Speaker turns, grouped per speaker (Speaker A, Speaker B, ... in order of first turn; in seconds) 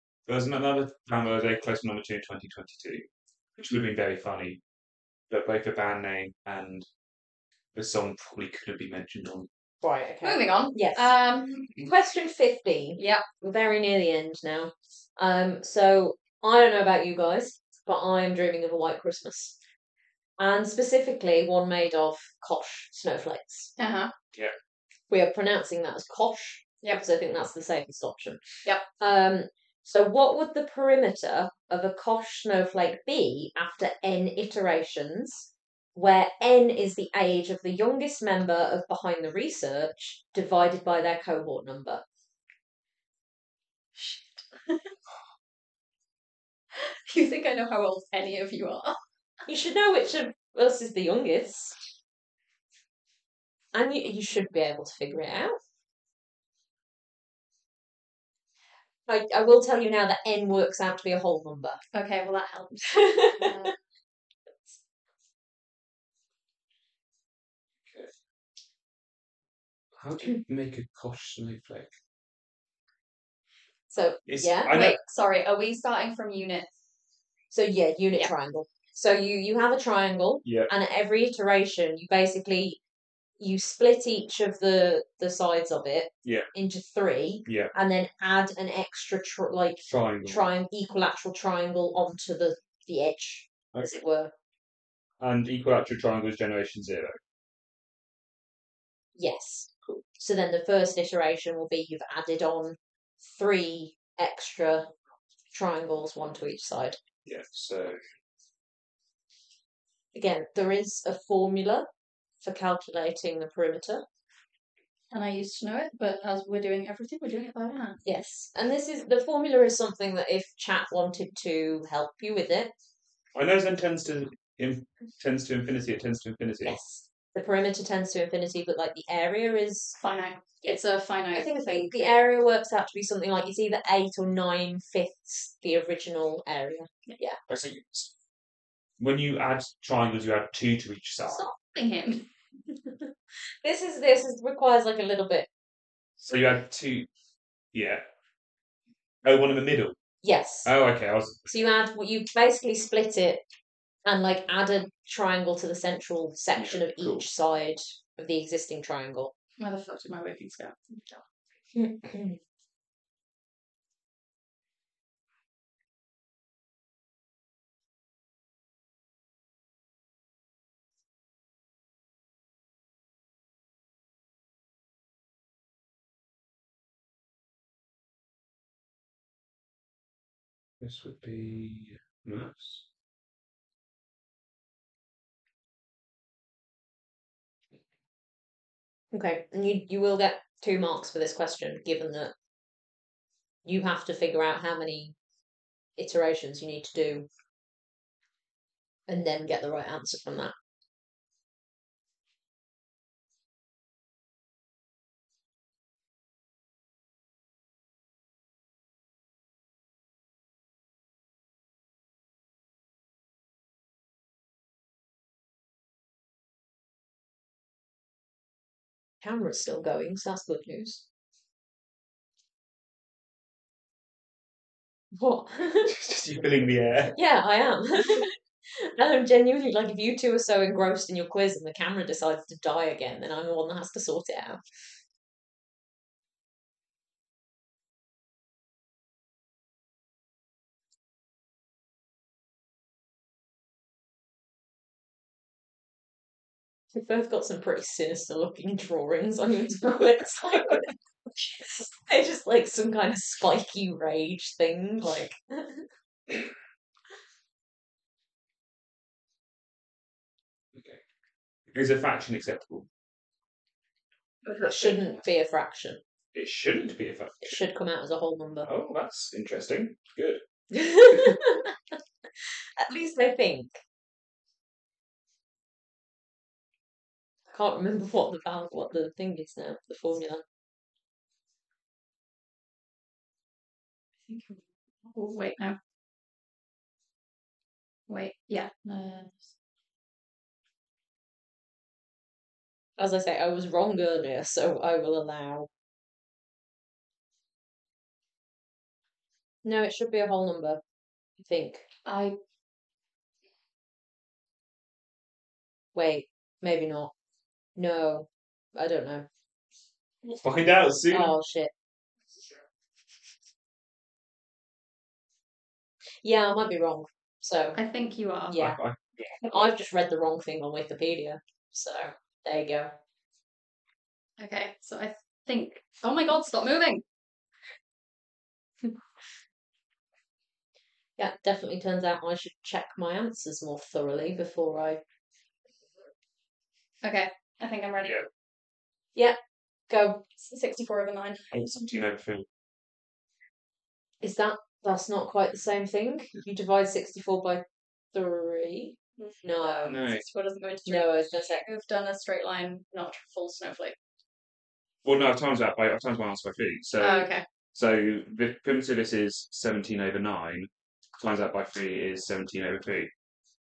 Speaker A: 0.2-3.0, 3.6-4.6, 5.3-6.8, 7.7-9.5, 67.8-68.1, 70.0-71.9, 74.2-75.0, 80.4-80.7, 86.2-86.5, 87.5-87.7, 89.9-90.5, 95.2-97.2, 107.2-108.0, 123.3-126.8, 137.5-138.1, 139.0-141.5, 146.2-147.1, 147.7-148.0, 149.2-149.9, 150.7-151.5, 156.6-157.2, 180.8-182.8, 225.8-227.1, 260.7-261.0, 261.7-262.9, 266.3-267.6, 268.6-270.4, 310.2-311.3, 318.5-319.4, 341.5-342.4, 349.8-350.2, 355.0-363.1
Speaker B: 9.8-11.1, 11.8-19.6, 20.4-23.7, 25.1-42.0, 49.5-51.7, 53.7-55.6, 59.1-61.8, 62.9-63.5, 73.9-74.7, 77.5-82.8, 83.4-94.3, 99.2-104.9, 105.5-107.0, 110.1-111.9, 112.4-114.0, 118.0-122.7, 126.6-130.0, 130.6-137.4, 141.3-141.5, 143.6-145.5, 150.2-150.7, 151.5-153.4, 154.0-159.3, 161.7-162.4, 189.1-192.3, 193.6-195.2, 195.9-197.3, 199.1-200.5, 219.2-221.0, 225.1-225.9, 227.1-234.6, 246.9-250.8, 251.6-255.9, 264.6-266.0, 267.4-268.7, 270.7-273.8, 277.5-280.4, 293.0-295.7, 299.6-300.8, 301.4-301.9, 305.9-307.1, 307.8-309.2, 311.1-311.7, 316.2-317.8, 318.5-318.8, 319.4-322.9, 331.2-335.0, 339.9-340.2, 344.2-349.9, 350.9-351.6
Speaker C: 10.2-11.7, 13.0-13.2, 23.8-24.1, 44.0-44.9, 46.8-49.0, 61.9-63.7, 74.7-76.7, 115.1-118.0, 130.0-132.2, 141.6-142.2, 159.6-161.2, 264.4-265.0, 284.3-284.6, 285.1-285.8, 288.1-289.3, 302.1-302.4, 317.8-318.6, 324.4-327.0, 337.0-338.2, 340.3-341.5, 349.2-353.9, 357.0-357.4